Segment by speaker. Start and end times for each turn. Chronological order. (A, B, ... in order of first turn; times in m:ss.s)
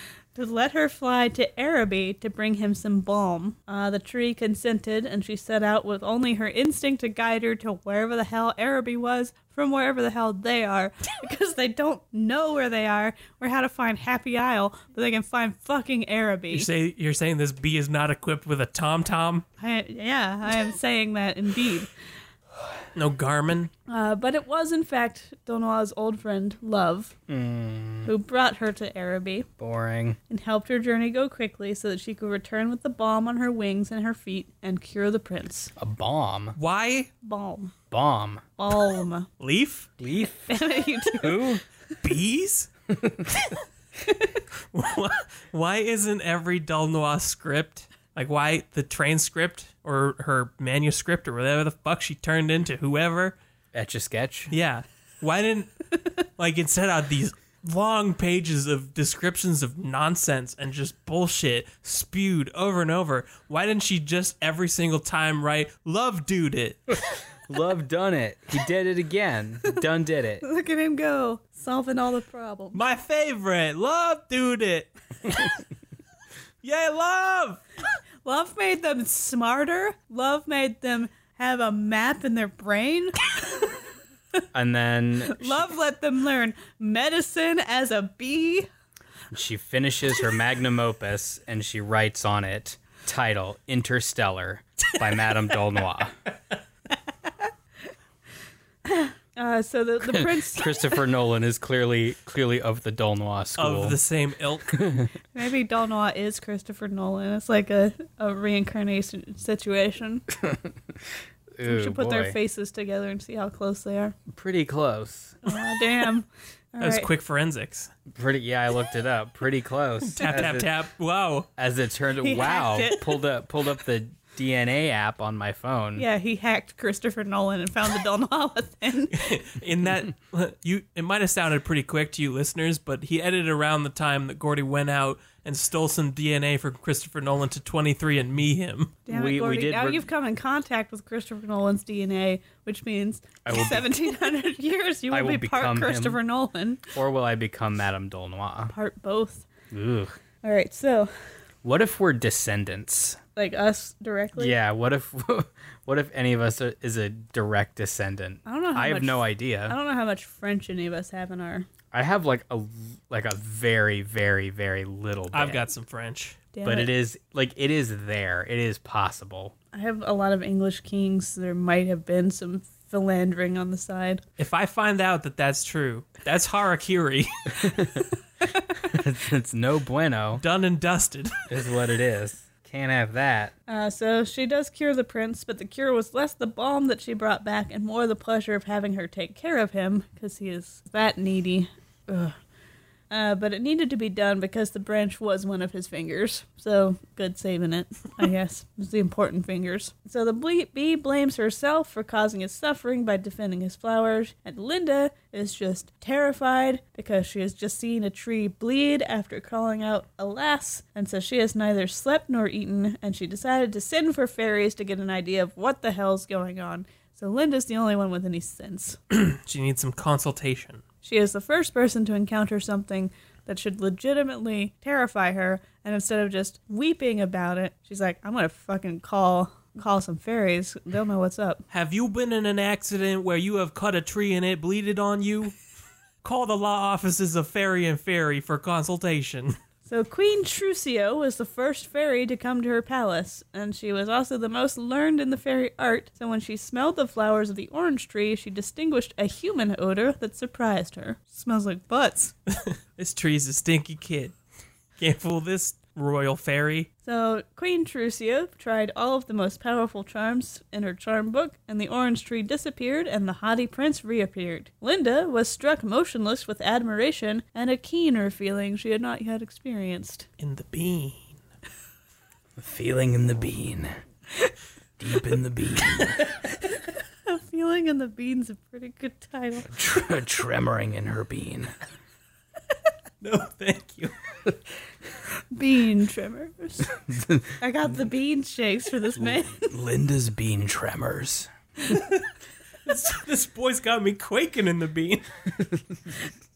0:00.3-0:16.7 A
0:16.5-0:19.4 B
0:19.6-0:21.9 A
0:22.9-0:23.7 B
0:23.9-0:27.1 A
0:27.3-0:28.1 C
0:28.0-0:29.5 A
0:29.6-0:30.2 C
0:30.3-0:35.7 A
0:35.8-0:36.6 C
0:36.6-0:37.1 B
0:37.2-0:37.7 A
0:37.9-0:38.4 C
0:38.6-0:39.3 A
0:39.4-0:39.9 B
0:40.0-0:40.6 C
0:40.5-0:41.6 A
0:41.1-0:41.6 C
0:42.0-0:42.7 B
0:42.9-0:43.3 C
0:44.7-0:53.4 B
0:53.7-0:54.5 C
0:54.5-1:07.0 B
1:07.5-1:10.4 C
1:10.4-1:12.8 A
1:12.7-1:15.5 B
1:16.6-1:17.6 B
1:18.2-1:23.7 A
1:24.5-1:25.6 C
1:25.2-1:28.7 A
1:29.3-1:36.2 C
1:38.8-1:41.0 A
1:40.0-1:44.0 C
1:43.6-1:44.8 B
1:44.7-1:45.1 C
1:45.3-1:50.2 A
1:50.4-1:50.7 C
1:51.6-1:52.4 C
1:51.6-1:54.2 A
1:54.3-1:55.4 C
1:55.4-1:57.1 A
1:56.8-1:57.9 B
1:58.1-2:00.7 C
2:00.1-2:01.5 B
2:01.6-2:06.0 C
2:02.2-2:03.2 A
2:06.0-2:09.3 A
2:09.1-2:19.0 B
2:19.1-2:26.9 A
2:19.1-2:20.0 C
2:23.4-2:23.9 C
2:25.1-2:26.2 C
2:26.9-2:28.7 C
2:28.7-2:29.5 A
2:29.7-2:30.2 C
2:30.4-2:31.1 A
2:31.6-2:33.2 C
2:33.4-2:34.6 A
2:34.4-2:39.8 C
2:38.4-2:41.7 A
2:41.9-2:45.7 C
2:45.3-2:46.4 B
2:46.5-2:46.9 A
2:46.6-2:49.5 C
2:49.7-2:54.2 A
2:54.4-2:57.7 B
2:57.6-2:58.0 C
2:58.8-3:00.4 C
3:00.4-3:01.3 B
3:01.5-3:03.5 C
3:03.7-3:12.4 A
3:13.1-3:39.0 A
3:39.1-3:40.8 B
3:41.0-3:51.6 A
3:51.7-3:55.6 B
3:56.2-3:59.6 B
3:59.9-4:12.3 A
4:12.5-4:14.3 B
4:15.0-4:16.9 B
4:17.0-4:30.3 A
4:30.4-4:31.4 B
4:32.6-4:33.9 C
4:35.0-4:36.3 C
4:37.2-4:39.7 A
4:39.7-4:41.7 C
4:43.2-4:44.1 B
4:45.5-4:46.9 A
4:47.0-4:47.6 C
4:47.6-4:49.7 A
4:49.2-4:51.5 C
4:52.8-4:55.2 B